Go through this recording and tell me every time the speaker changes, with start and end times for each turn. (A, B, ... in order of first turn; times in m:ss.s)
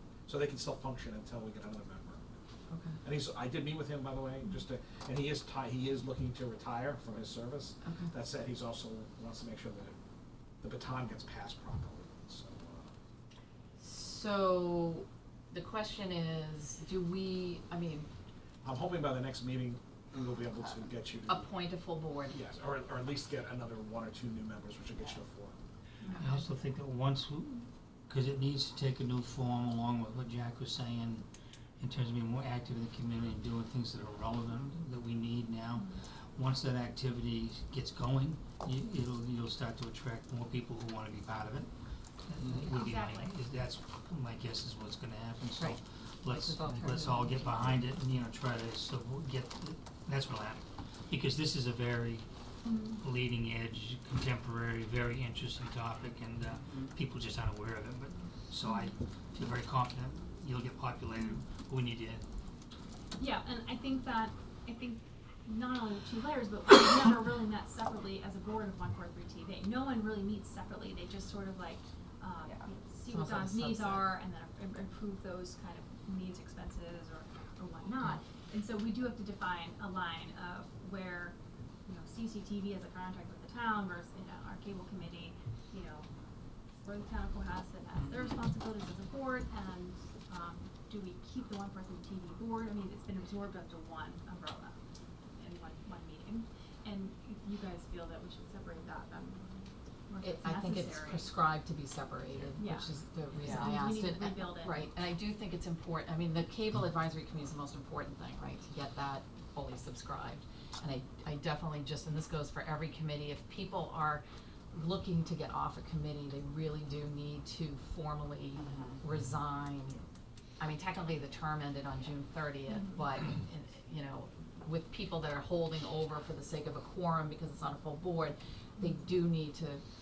0:00.2-0:02.2 A
0:02.7-0:03.0 B
0:03.0-0:09.9 A
0:07.8-0:08.1 B
0:10.6-0:12.9 A
0:13.8-0:18.1 B
0:18.6-0:21.5 A
0:21.3-0:22.4 B
0:22.3-0:25.5 A
0:26.0-0:26.4 C
0:26.2-0:31.2 D
0:31.8-0:41.7 D
0:35.8-0:36.0 C
0:42.2-0:52.2 D
0:42.6-0:43.3 C
0:45.6-0:47.6 B
0:52.6-0:53.0 C
0:53.0-1:02.2 D
0:58.6-0:58.9 C
1:03.2-1:26.1 C
1:13.0-1:14.1 B
1:26.8-1:34.8 C
1:35.4-1:41.3 C
1:40.2-2:00.0 B
1:42.6-1:44.8 C
2:00.6-2:09.8 B
2:02.7-2:03.0 C